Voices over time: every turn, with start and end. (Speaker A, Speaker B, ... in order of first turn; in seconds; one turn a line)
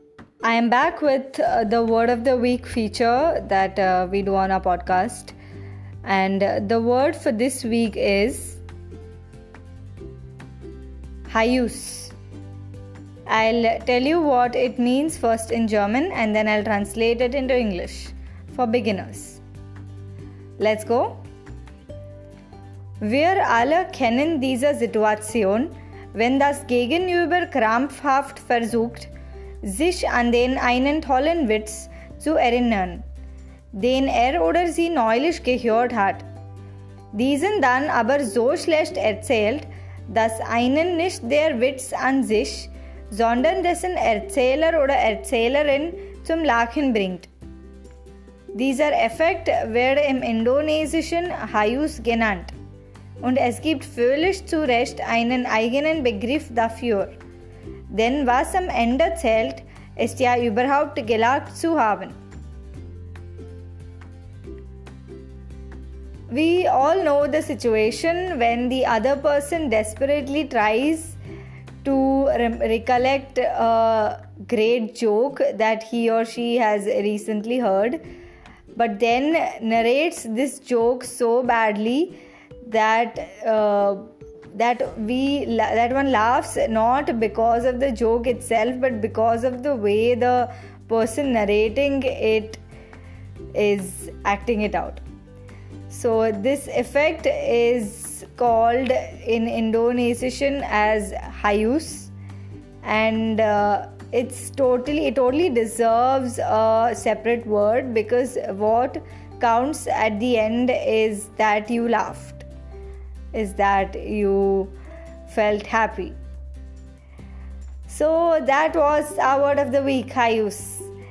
Speaker A: 0.4-5.3
Speaker A: 6.0-8.6
Speaker A: 11.3-12.1
Speaker A: 13.3-19.4
Speaker A: 20.6-21.2
Speaker A: 23.0-29.1
Speaker A: 29.6-33.0
Speaker A: 33.7-36.2
Speaker A: 37.1-47.3
Speaker A: 48.5-52.5
Speaker A: 53.2-57.1
Speaker A: 57.9-62.1
Speaker A: 66.3-71.2
Speaker A: 71.8-78.0
Speaker A: 78.7-92.6
Speaker A: 93.5-95.0
Speaker A: 95.9-102.1
Speaker A: 102.8-112.5
Speaker A: 113.3-114.7
Speaker A: 115.3-116.1
Speaker A: 117.9-120.9